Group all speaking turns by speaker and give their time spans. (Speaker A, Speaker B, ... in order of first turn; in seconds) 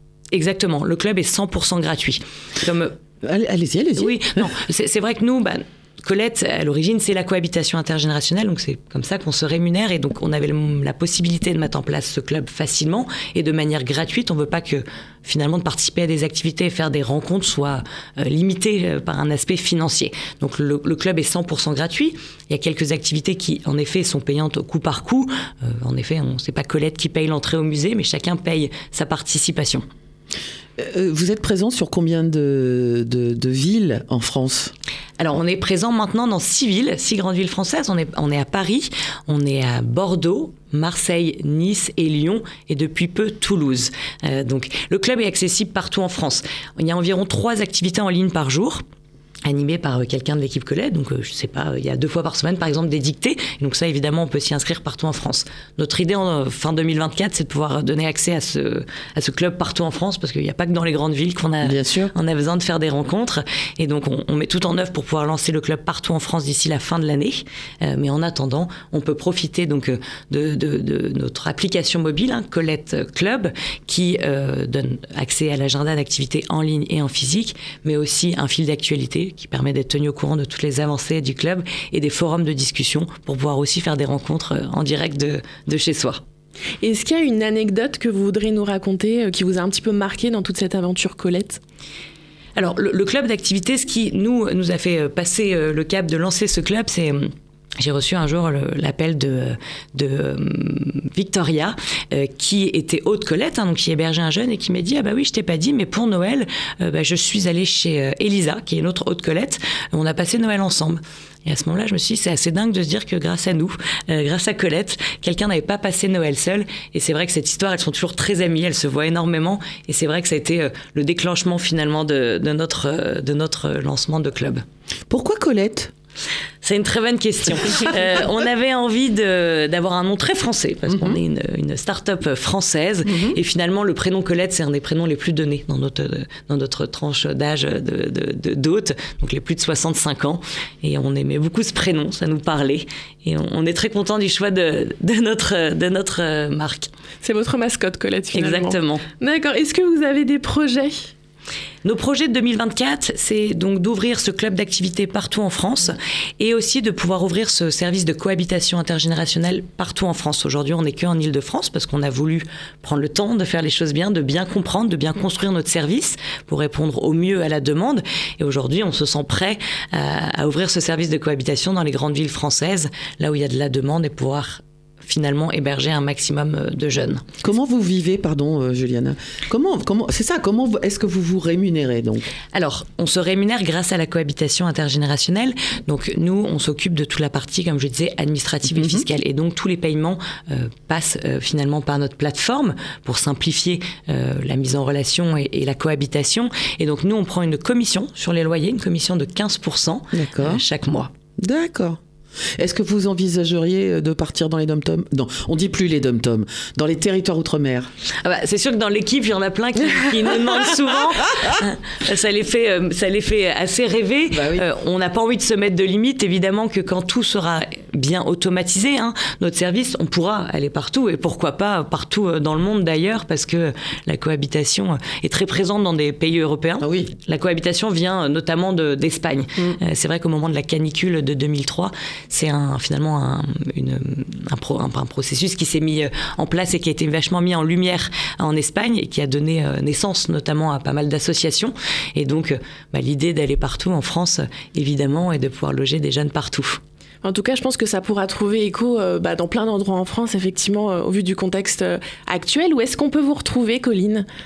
Speaker A: 0.3-2.9, 4.0-29.8, 35.2-48.8, 49.4-86.2, 92.5-97.3, 97.8-124.6, 126.6-146.9, 148.3-149.0, 151.8-177.2, 182.5-201.1, 208.2-246.8
Speaker B: 3.2-4.2, 30.8-34.7, 61.6-62.1, 125.1-125.9, 133.1-133.3, 177.4-182.3, 188.7-189.0, 200.1-200.6, 201.4-202.0, 202.6-207.9, 214.3-214.6, 226.8-227.1
Speaker C: 86.8-91.6, 147.2-151.1, 247.2-254.2